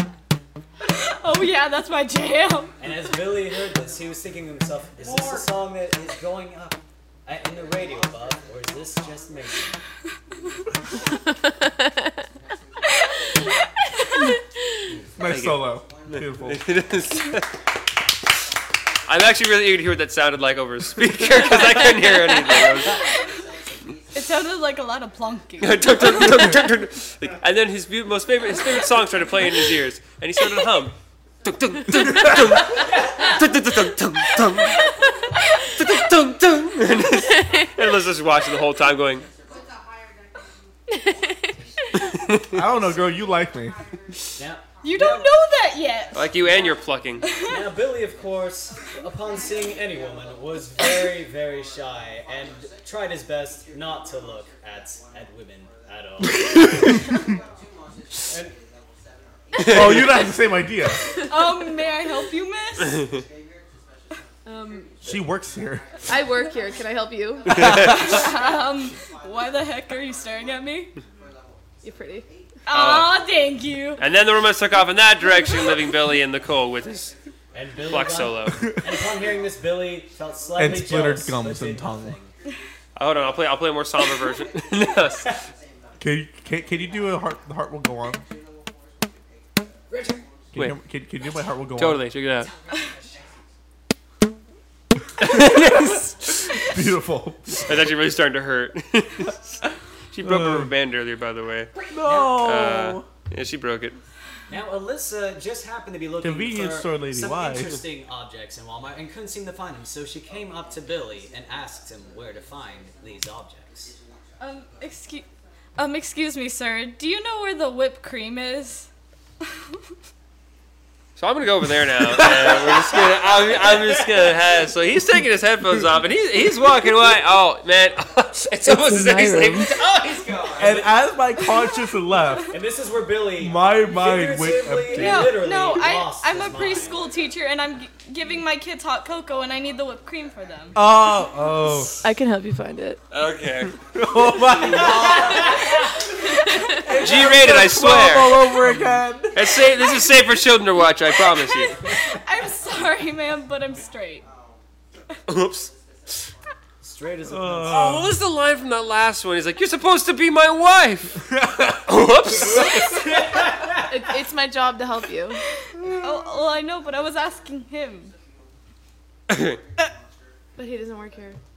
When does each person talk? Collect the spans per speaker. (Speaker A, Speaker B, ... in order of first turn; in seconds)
Speaker A: 0.9-2.7, 24.1-26.5, 44.8-46.3, 47.2-47.6, 61.3-63.1, 67.7-70.9, 72.7-74.0, 114.4-118.9, 134.9-140.8, 152.1-154.2, 166.0-168.1
Speaker B: 2.8-9.8, 44.4-45.3, 47.4-57.0, 58.3-58.5, 77.5-82.3, 89.9-90.2, 102.0-102.5, 104.5-114.0, 129.8-130.9, 132.5-137.0, 144.7-145.8, 156.8-158.1, 162.8-163.9
Speaker C: 15.2-16.6, 42.5-43.8, 59.6-61.1, 65.0-65.8, 78.5-79.0, 80.6-82.2, 86.0-88.2, 90.5-92.0, 95.3-97.7, 100.2-100.7, 101.9-103.1, 106.2-107.8, 122.0-123.0, 130.6-132.6, 133.4-135.4, 140.7-142.0, 143.8-145.6, 146.7-149.4, 157.3-158.2, 161.3-161.8, 165.8-166.2
Speaker D: 15.2-17.5, 19.1-23.0, 25.6-34.9, 35.7-39.3, 42.2-42.5, 46.1-47.3, 59.6-60.1, 67.5-68.0, 72.7-73.2, 74.0-77.1, 77.9-78.6, 83.0-85.4, 91.8-92.5, 95.2-96.1, 97.6-101.7, 102.3-104.0, 121.2-130.6, 143.1-143.8, 144.6-145.1, 147.0-148.6, 149.3-151.8, 155.3-156.2, 157.7-161.2, 161.8-163.1, 169.3-169.6
Speaker E: 64.4-64.9, 66.1-67.8, 71.8-72.3, 128.6-129.8, 142.0-143.0, 163.8-165.4, 170.6-171.4